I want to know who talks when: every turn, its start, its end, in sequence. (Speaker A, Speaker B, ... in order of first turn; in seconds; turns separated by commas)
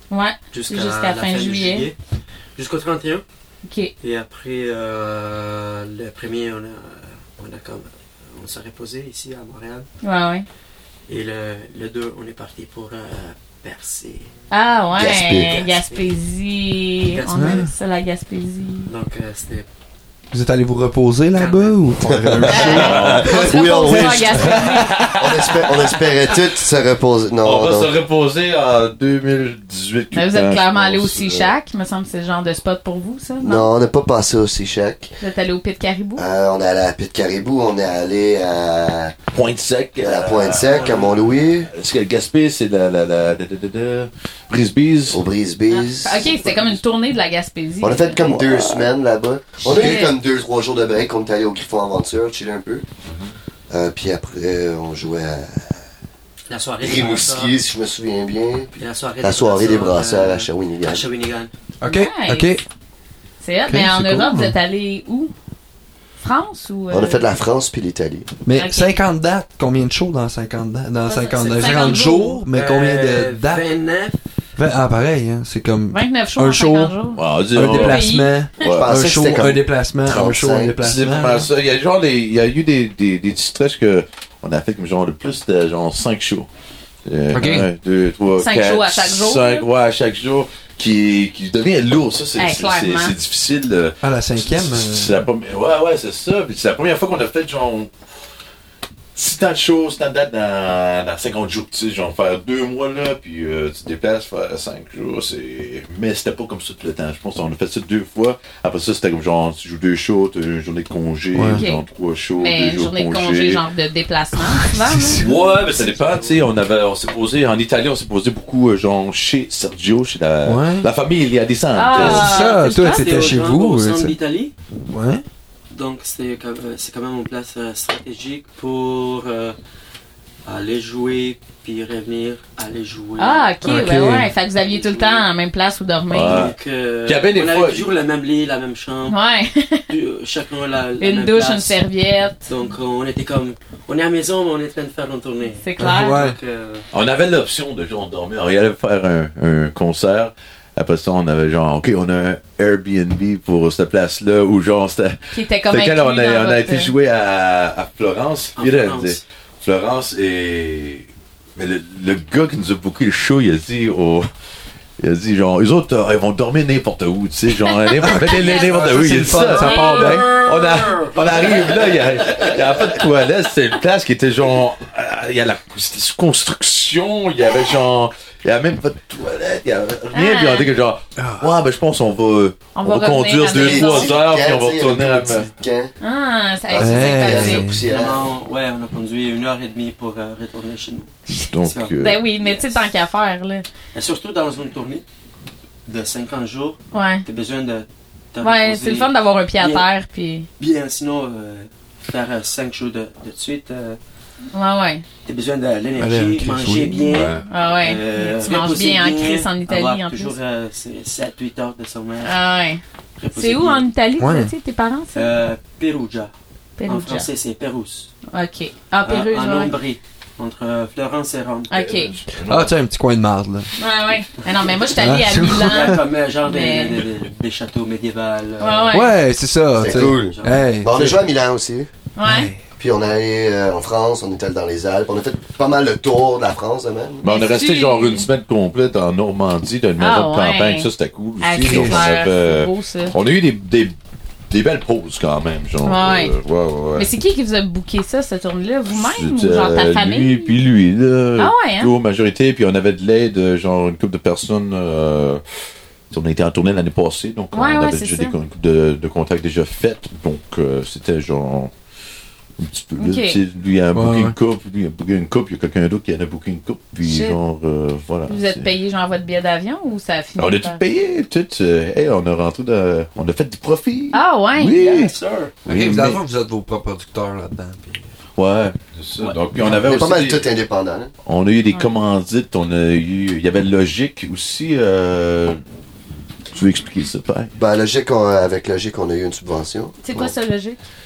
Speaker A: 0.1-1.9, Speaker B: 0.5-1.9, Speaker B: 2.5-3.2, Speaker A: 3.6-3.9, Speaker B: 4.0-9.9, Speaker A: 10.0-10.4, Speaker B: 11.1-14.3, Speaker A: 14.5-18.9, Speaker C: 14.9-15.6, Speaker B: 15.3-16.1, Speaker B: 17.1-17.7, Speaker D: 17.3-17.7, Speaker B: 18.9-19.7, Speaker D: 20.3-23.2, Speaker B: 21.3-23.3, Speaker C: 22.0-27.9, Speaker A: 22.5-25.1, Speaker E: 22.5-26.5, Speaker E: 27.4-31.5, Speaker A: 30.1-33.7, Speaker C: 33.4-35.1, Speaker A: 35.2-36.2, Speaker C: 36.2-39.1, Speaker E: 39.3-41.0, Speaker C: 40.0-41.7, Speaker B: 40.6-41.2, Speaker E: 41.6-45.2, Speaker C: 45.1-46.5, Speaker A: 45.7-48.2, Speaker C: 47.8-52.8, Speaker E: 48.3-48.9, Speaker A: 49.6-50.1, Speaker C: 53.7-55.8, Speaker B: 56.5-57.5, Speaker C: 56.8-61.0, Speaker B: 58.8-61.5, Speaker D: 61.8-62.6, Speaker A: 61.8-62.6, Speaker A: 63.4-65.3, Speaker D: 63.7-64.5, Speaker A: 66.2-67.2, Speaker C: 66.9-68.3, Speaker D: 68.5-73.7, Speaker A: 68.5-68.9, Speaker A: 71.1-72.4, Speaker B: 71.3-74.2, Speaker D: 74.5-77.0, Speaker A: 75.9-77.2, Speaker E: 77.1-78.9, Speaker D: 77.5-81.5, Speaker A: 77.8-78.8, Speaker C: 78.7-80.8, Speaker E: 80.8-86.5, Speaker E: 87.0-97.9, Speaker D: 87.3-87.7, Speaker A: 88.4-89.6, Speaker A: 92.4-93.1, Speaker D: 94.0-95.2, Speaker E: 99.1-113.6, Speaker D: 111.3-111.7, Speaker A: 111.5-111.8, Speaker A: 112.3-115.3, Speaker D: 114.4-115.2, Speaker E: 115.2-122.3, Speaker B: 115.2-116.6, Speaker D: 120.4-120.9, Speaker A: 121.8-123.1, Speaker D: 121.9-124.2, Speaker B: 122.0-124.5, Speaker D: 124.9-125.2, Speaker B: 125.7-129.6, Speaker B: 130.4-133.9, Speaker A: 133.2-136.5, Speaker D: 133.7-134.3, Speaker B: 134.6-135.3, Speaker E: 136.1-137.9, Speaker B: 136.1-139.1, Speaker A: 139.1-139.9, Speaker B: 139.9-141.8, Speaker A: 141.0-142.5, Speaker B: 142.5-146.8, Speaker A: 145.6-146.2, Speaker D: 145.8-146.4, Speaker E: 146.9-164.3, Speaker A: 155.3-156.9, Speaker B: 158.6-159.2, Speaker E: 165.0-185.5, Speaker A: 167.7-170.4, Speaker D: 168.0-170.3, Speaker B: 170.2-172.8, Speaker A: 180.1-180.7, Speaker D: 181.2-181.5, Speaker A: 182.7-184.2, Speaker C: 183.5-185.9, Speaker A: 186.0-187.7, Speaker C: 186.7-188.3, Speaker D: 186.8-187.8, Speaker B: 187.8-192.9, Speaker E: 191.3-192.2, Speaker A: 192.0-193.6, Speaker B: 193.9-195.0, Speaker B: 195.8-199.9, Speaker A: 196.9-197.2, Speaker A: 198.4-200.5, Speaker B: 200.6-204.0, Speaker A: 204.5-205.0, Speaker B: 205.2-212.4, Speaker D: 206.0-207.2, Speaker E: 207.1-207.4, Speaker A: 207.5-210.3, Speaker A: 212.2-212.8, Speaker B: 213.2-213.8, Speaker A: 213.3-215.4, Speaker D: 214.2-214.5, Speaker B: 215.1-216.3, Speaker A: 216.8-217.3, Speaker B: 216.9-218.1, Speaker A: 218.3-219.8, Speaker B: 219.1-221.8, Speaker A: 221.7-222.2, Speaker E: 221.8-222.8, Speaker D: 222.4-223.7, Speaker A: 223.8-227.1, Speaker D: 225.0-226.0, Speaker B: 225.4-229.1, Speaker A: 228.6-229.1, Speaker D: 228.9-231.3, Speaker C: 229.8-231.9, Speaker B: 229.9-230.6, Speaker A: 232.2-232.5, Speaker D: 232.2-232.6, Speaker C: 232.8-237.2, Speaker E: 237.2-243.9, Speaker A: 237.3-238.3, Speaker A: 240.0-240.9, Speaker A: 241.4-243.1, Speaker D: 241.5-242.1, Speaker E: 244.5-247.1, Speaker A: 245.8-246.4, Speaker A: 246.9-250.5, Speaker E: 248.9-255.4, Speaker A: 251.4-251.9, Speaker E: 256.1-261.7, Speaker A: 257.5-258.4, Speaker E: 262.6-268.7, Speaker A: 263.0-263.4, Speaker D: 263.9-264.4, Speaker A: 267.0-267.4, Speaker A: 268.3-270.8, Speaker E: 270.4-276.2, Speaker A: 274.1-275.1, Speaker B: 274.9-275.5, Speaker D: 275.6-278.0, Speaker E: 278.4-280.4, Speaker C: 279.7-281.1, Speaker E: 281.2-285.6, Speaker E: 286.5-287.5, Speaker C: 287.6-290.3, Speaker A: 290.0-290.8